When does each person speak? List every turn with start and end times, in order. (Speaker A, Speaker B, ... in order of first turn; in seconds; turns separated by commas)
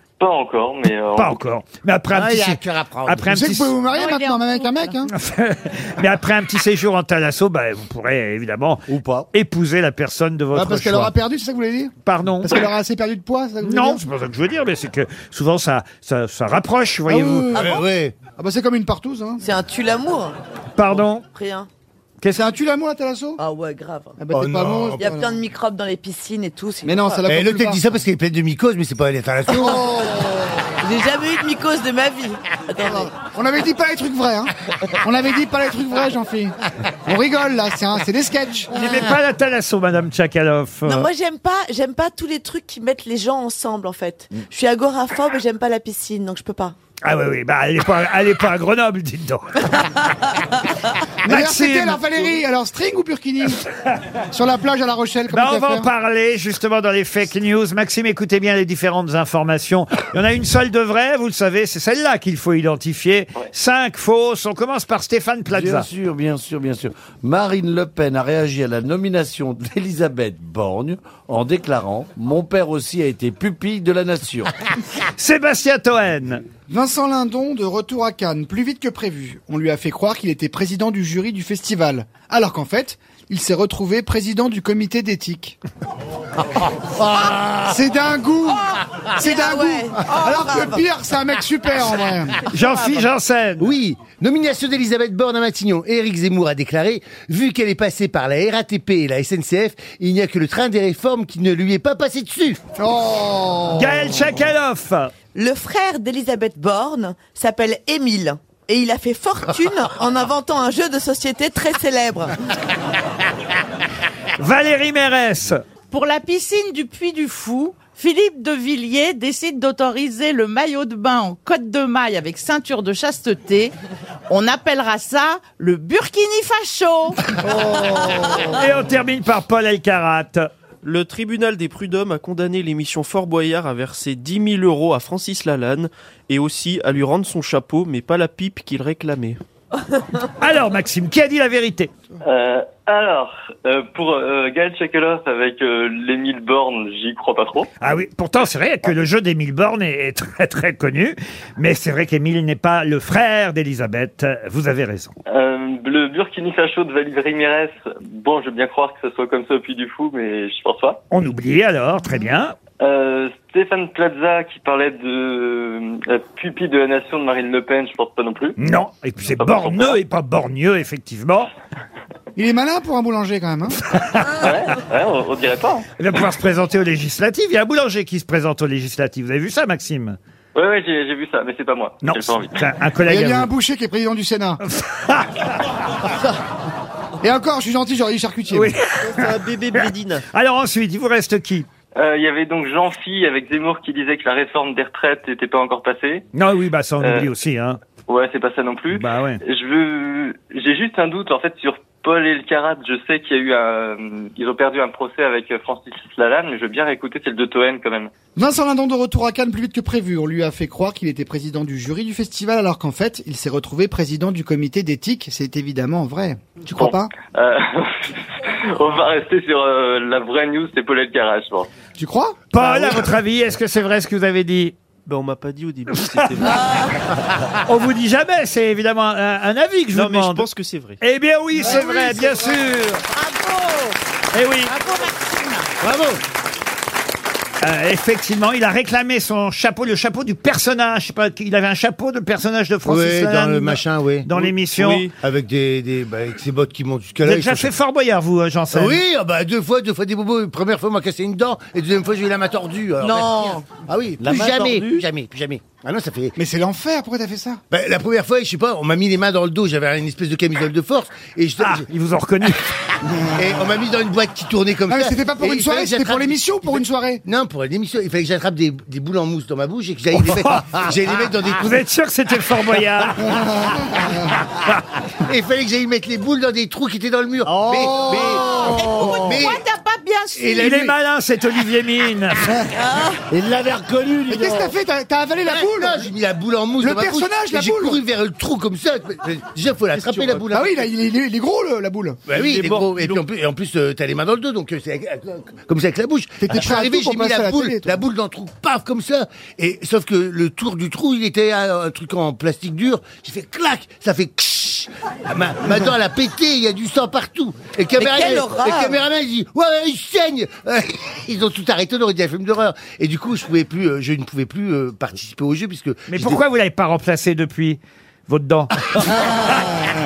Speaker A: 0.2-1.4, Speaker B: 1.1-3.8, Speaker C: 2.1-3.4, Speaker D: 3.3-5.1, Speaker E: 3.8-5.0, Speaker B: 5.0-11.1, Speaker F: 8.9-9.3, Speaker D: 10.5-11.9, Speaker B: 12.0-12.7, Speaker D: 12.4-14.1, Speaker B: 13.6-17.8, Speaker D: 17.1-17.8, Speaker C: 17.5-18.2, Speaker D: 18.3-19.4, Speaker G: 19.4-20.4, Speaker B: 20.8-21.2, Speaker G: 21.2-21.7, Speaker D: 22.2-23.4, Speaker G: 23.4-24.2, Speaker D: 24.2-25.4, Speaker C: 24.3-25.1, Speaker G: 24.9-27.3, Speaker D: 26.8-27.8, Speaker C: 27.2-30.2, Speaker G: 29.5-29.8, Speaker D: 29.7-30.5, Speaker G: 30.7-33.3, Speaker D: 32.8-36.5, Speaker D: 37.0-38.7, Speaker B: 38.7-41.1, Speaker G: 38.7-39.0, Speaker G: 40.8-46.7, Speaker B: 47.0-49.9, Speaker B: 51.2-52.2, Speaker D: 51.3-53.6, Speaker D: 54.3-55.9, Speaker B: 55.3-65.9, Speaker F: 65.5-74.5, Speaker B: 75.2-76.4, Speaker D: 76.7-85.6, Speaker C: 86.8-87.8, Speaker D: 87.7-88.6, Speaker G: 88.5-90.9, Speaker D: 89.2-92.4, Speaker B: 92.5-93.7, Speaker G: 92.7-93.0, Speaker C: 93.6-102.6, Speaker D: 102.8-104.2, Speaker B: 103.7-105.1, Speaker G: 105.3-112.5, Speaker B: 114.4-115.6, Speaker E: 115.9-123.7, Speaker E: 124.3-127.2, Speaker D: 127.5-128.5, Speaker B: 128.5-130.5, Speaker H: 130.8-139.4, Speaker B: 140.4-141.9, Speaker A: 142.2-147.7, Speaker B: 147.8-155.1, Speaker A: 155.3-161.0, Speaker B: 161.1-162.5, Speaker A: 162.8-168.6, Speaker B: 168.6-171.5, Speaker A: 169.4-170.0, Speaker D: 172.3-173.8, Speaker B: 173.8-174.5, Speaker A: 174.4-175.8, Speaker B: 176.0-180.2, Speaker A: 180.5-182.6, Speaker B: 182.0-183.5, Speaker D: 183.0-184.6, Speaker B: 184.6-185.6, Speaker D: 187.2-188.7, Speaker B: 188.5-191.7, Speaker H: 189.1-190.2, Speaker A: 192.0-196.2, Speaker B: 196.3-197.8, Speaker A: 197.0-197.3, Speaker A: 198.1-208.1, Speaker B: 198.9-199.4, Speaker D: 208.3-217.1, Speaker A: 216.8-218.1, Speaker A: 218.8-221.7, Speaker D: 221.9-223.0, Speaker B: 222.5-224.8, Speaker H: 225.1-226.8, Speaker B: 225.9-226.3, Speaker B: 227.6-230.5, Speaker H: 229.9-231.0, Speaker B: 231.0-233.0, Speaker E: 231.6-234.0, Speaker B: 234.3-234.7, Speaker E: 234.7-235.7, Speaker C: 235.8-236.2, Speaker B: 237.6-245.1, Speaker C: 242.8-244.3, Speaker H: 244.7-245.0, Speaker C: 245.2-247.7, Speaker B: 247.2-249.0, Speaker C: 248.7-256.3, Speaker G: 253.0-253.8, Speaker F: 254.2-255.0, Speaker D: 256.4-257.6, Speaker C: 257.7-261.9, Speaker B: 261.6-262.7, Speaker C: 262.6-271.8, Speaker D: 264.9-267.2, Speaker B: 270.2-270.8, Speaker B: 271.5-274.6, Speaker D: 273.3-273.7, Speaker C: 275.2-279.6, Speaker D: 277.4-279.1, Speaker E: 278.3-280.9, Speaker C: 280.3-280.9, Speaker B: 280.5-282.7, Speaker G: 282.7-283.2, Speaker F: 283.3-284.7, Speaker D: 284.3-286.0, Speaker C: 285.4-290.9, Speaker D: 286.8-288.0, Speaker D: 290.5-292.2, Speaker C: 292.3-316.4, Speaker D: 296.4-297.9, Speaker G: 307.9-309.0, Speaker B: 316.1-319.8